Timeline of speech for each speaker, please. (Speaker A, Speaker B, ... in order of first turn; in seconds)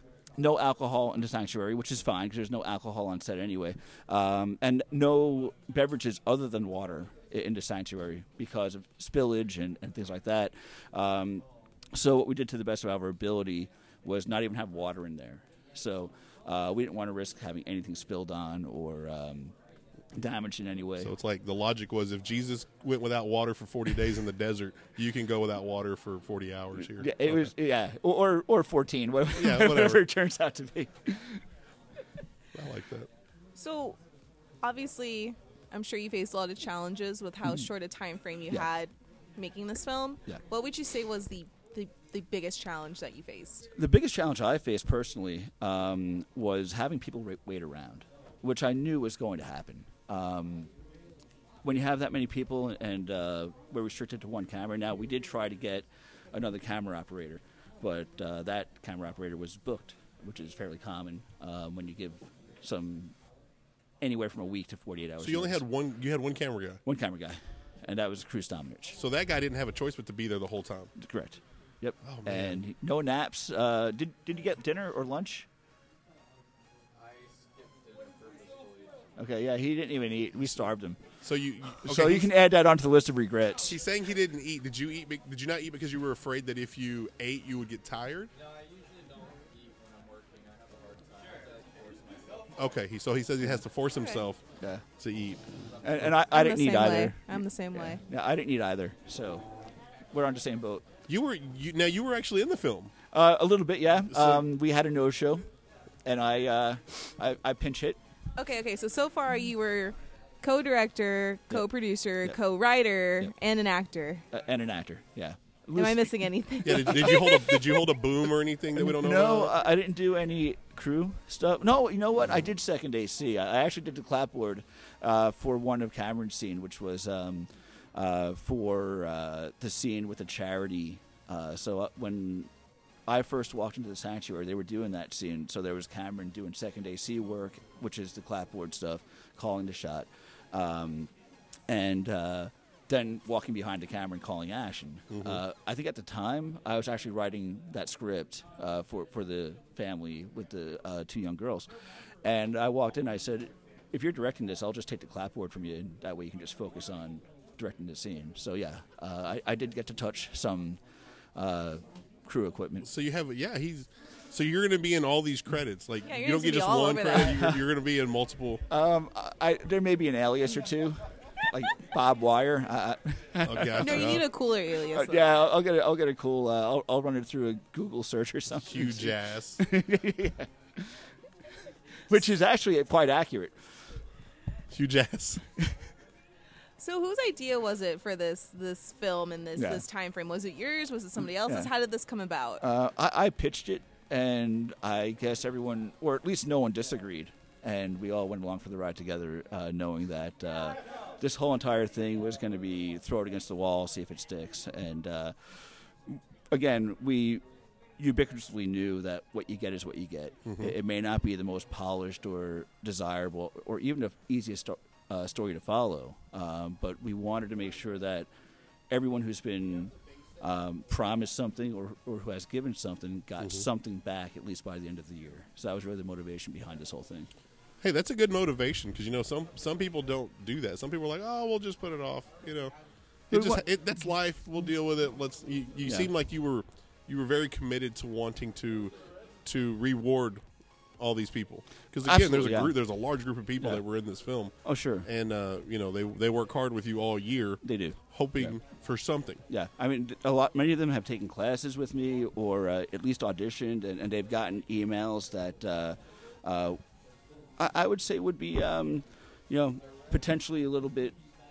Speaker A: 0.4-19.5, 20.1-21.1, 26.8-31.4, 43.7-50.7, 51.6-63.1, 64.0-65.6, 66.8-69.0, 71.0-75.5, 79.2-81.0, 81.7-83.8, 95.8-99.5, 100.1-100.8, 103.1-105.5, 106.0-108.0, 114.3-116.1, 118.7-132.5, 133.1-141.1, 141.7-151.7, 152.2-160.8, 161.3-162.9, 167.3-167.6, 168.7-174.2, 174.9-181.0, 182.1-183.5, 189.6-189.8, 192.6-207.4, 208.0-218.3, 218.9-227.3, 233.3-233.6, 242.0-242.8, 244.6-245.1, 247.6-248.6, 249.5-256.8, 257.6-261.2
Speaker B: 21.0-27.5, 29.4-30.0, 32.5-33.1, 65.2-66.8, 69.0-70.9, 72.0-72.6, 81.2-82.3, 83.6-88.3, 92.6-94.4, 95.0-95.4, 101.1-102.9, 104.1-104.4, 116.6-119.5, 145.1-145.4, 162.8-168.6, 173.4-174.2, 178.6-179.6, 184.7-185.4, 210.4-210.7, 227.8-232.7, 233.3-240.4, 241.0-249.4
Speaker C: 33.5-34.0, 34.6-43.7, 96.3-98.0, 108.3-114.2, 115.8-117.9, 166.0-167.4, 173.8-175.3, 186.8-192.6
Speaker D: 76.9-79.0, 88.3-92.5